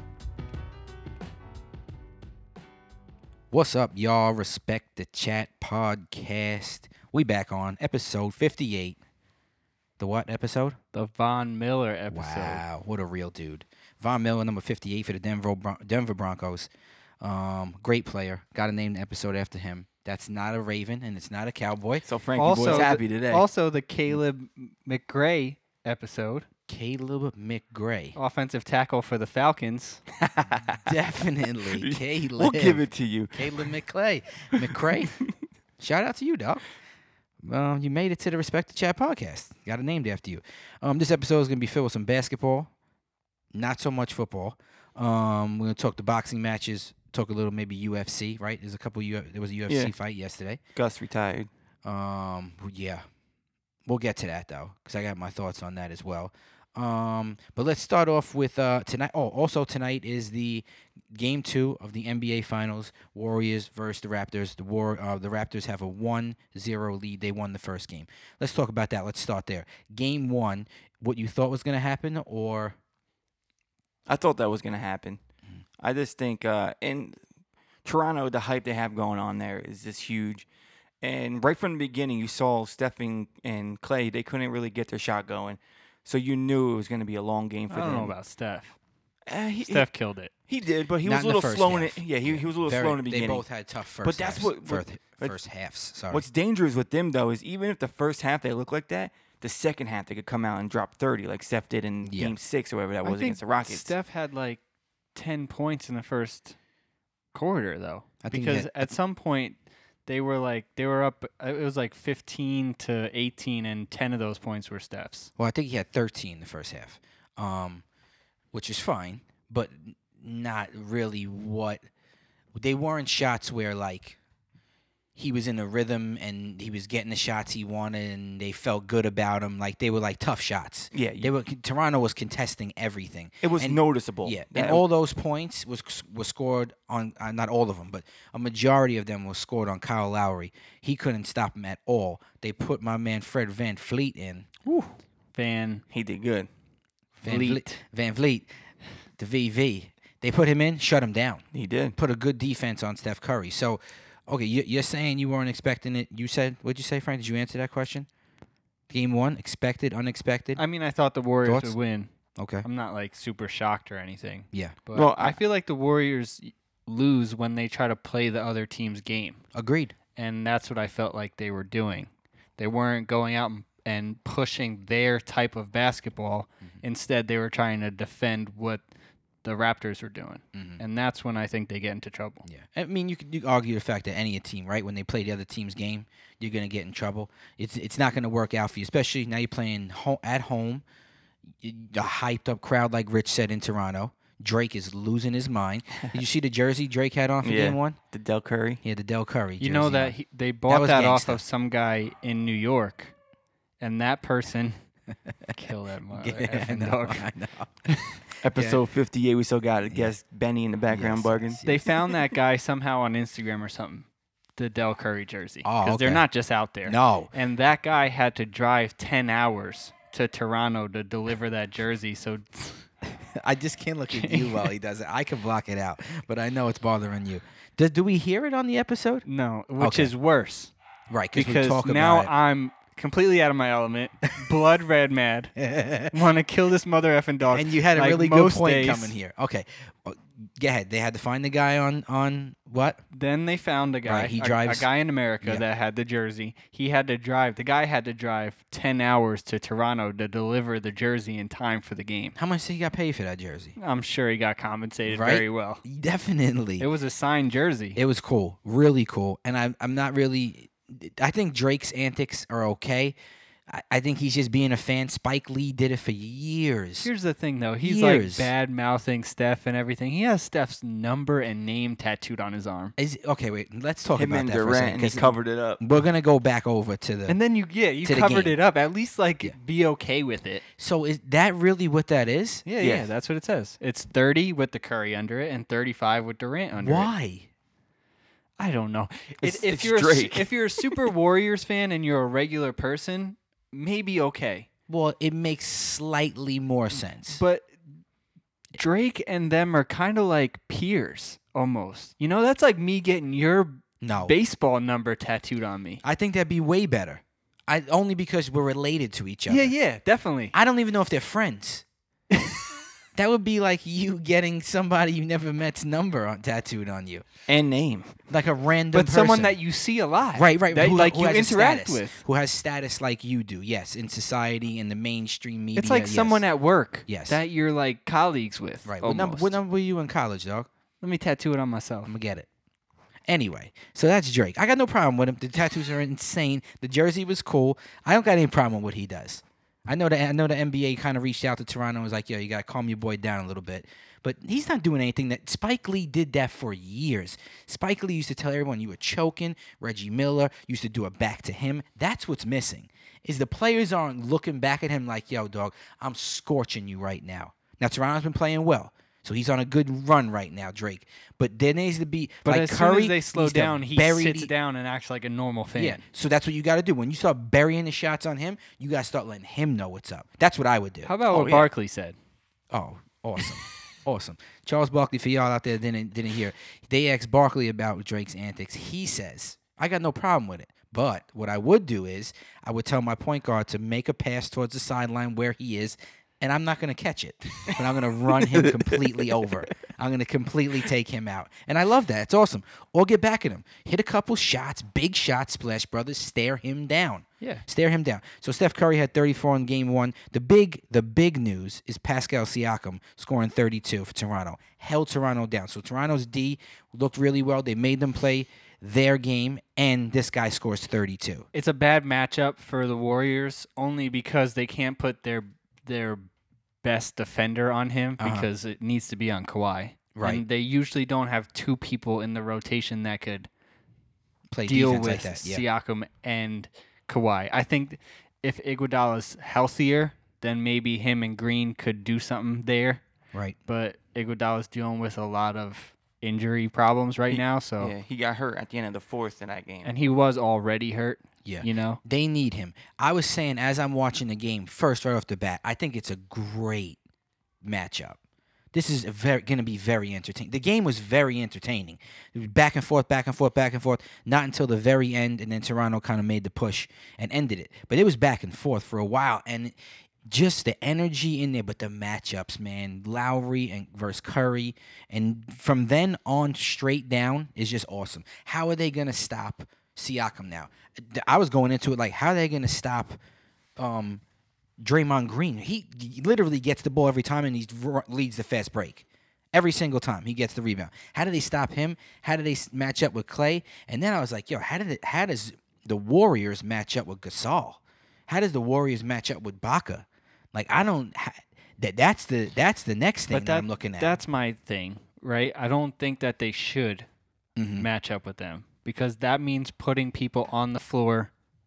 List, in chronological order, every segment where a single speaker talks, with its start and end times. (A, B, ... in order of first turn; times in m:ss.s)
0:03.5-0:09.0 A
0:10.0-0:10.8 A
0:10.9-0:12.6 B
0:12.1-0:16.7 A
0:17.2-0:22.0 A
0:22.0-0:23.4 C
0:22.4-0:26.5 B
0:22.6-0:23.0 A
0:26.7-0:28.2 A
0:28.2-0:30.0 B
0:30.3-0:30.8 C
0:30.8-0:32.8 A
0:31.7-0:33.7 C
0:33.4-0:35.2 A
0:34.5-0:35.1 C
0:35.8-0:36.6 A
0:37.4-0:42.7 A
0:43.5-0:50.6 A
0:50.8-0:51.5 C
0:51.8-0:53.0 A
0:53.9-1:12.8 A
1:14.1-1:15.2 C
1:15.8-1:17.2 C
1:17.8-1:20.5 C
1:21.0-1:28.1 C
1:27.7-1:28.8 B
1:29.3-1:29.9 C
1:29.7-1:30.3 B
1:30.5-1:33.4 C
1:31.0-1:36.2 A
1:34.0-1:35.4 C
1:36.1-1:43.9 C
1:42.0-1:42.4 A
1:43.0-1:44.6 B
1:45.2-1:46.6 B
1:47.3-1:55.3 B
1:48.2-1:48.9 A
1:55.4-1:57.8 A
1:58.5-2:01.8 A
2:02.6-2:04.2 A
2:05.2-2:24.5 A
2:10.9-2:11.3 C
2:13.4-2:14.8 C
2:24.7-2:25.8 B
2:25.9-2:26.5 C
2:27.2-2:28.5 A
2:27.2-2:27.8 B
2:29.2-2:31.4 A
2:31.5-2:32.0 C
2:32.0-2:38.1 A
2:38.9-2:40.6 A
2:40.6-2:42.1 B
2:41.4-2:41.8 A
2:42.4-2:42.7 A
2:42.6-2:49.4 B
2:44.5-2:44.8 A
2:45.0-2:45.4 C
2:49.5-2:49.9 A
2:50.2-2:58.8 B
2:59.4-3:02.5 B
3:00.5-3:00.8 A
3:02.5-3:10.8 A
3:11.6-3:18.0 A
3:17.4-3:18.8 C
3:18.8-3:20.2 A
3:19.6-3:23.1 B
3:20.7-3:21.4 A
3:23.8-3:24.8 B
3:25.5-3:27.3 B
3:26.1-3:28.8 A
3:28.4-3:31.6 C
3:30.9-3:32.2 A
3:31.6-3:42.9 B
3:35.6-3:36.2 A
3:36.9-3:37.3 A
3:43.1-3:49.3 A
3:44.1-3:44.7 B
3:49.3-3:50.7 B
3:49.8-3:50.1 A
3:51.1-3:52.3 A
3:51.3-3:55.6 B
3:55.6-3:56.2 A
3:56.1-3:59.1 B
3:57.5-4:03.0 A
4:03.1-4:12.4 B
4:04.0-4:04.9 A
4:12.4-4:13.8 A
4:13.8-4:15.8 B
4:15.1-4:16.9 A
4:16.8-4:18.0 B
4:18.0-4:23.2 A
4:23.7-4:27.1 A
4:27.0-4:32.9 B
4:27.8-4:28.5 A
4:33.0-4:37.4 A
4:34.1-4:35.8 C
4:37.3-4:40.6 B
4:38.0-4:38.6 A
4:40.8-4:42.6 A
4:42.7-4:47.1 B
4:42.8-4:43.1 C
4:46.8-4:47.5 A
4:48.6-4:54.7 B
4:49.4-4:51.1 C
4:54.9-4:57.4 A
4:57.3-4:57.7 B
4:58.8-5:06.0 B
5:04.0-5:04.4 A
5:06.0-5:09.7 A
5:09.5-5:10.6 B
5:10.5-5:11.8 A
5:13.2-5:17.3 A
5:17.5-5:18.2 C
5:18.3-5:19.6 A
5:18.9-5:22.2 B
5:20.3-5:26.4 A
5:25.8-5:29.6 B
5:27.1-5:27.4 A
5:28.8-5:30.7 A
5:31.0-5:32.1 B
5:32.1-5:32.5 A
5:33.3-6:04.5 A
6:02.4-6:06.0 B
6:05.8-6:11.1 A
6:11.1-6:12.2 B
6:11.3-6:11.7 C
6:12.7-6:51.5 A
6:28.5-6:29.0 C
6:51.5-6:56.3 B
6:56.8-7:03.5 B
6:58.2-6:58.5 A
7:00.2-7:00.4 A
7:04.5-7:05.6 A
7:04.7-7:13.0 B
7:13.7-7:17.9 B
7:17.3-7:19.9 C
7:19.8-7:22.0 B
7:21.4-7:27.0 A
7:27.6-7:28.2 A
7:28.7-7:39.8 A
7:40.3-7:53.2 A
7:53.8-7:54.2 A
7:54.8-8:14.2 A
8:13.3-8:17.1 B
8:17.6-8:17.9 A
8:17.8-8:21.3 B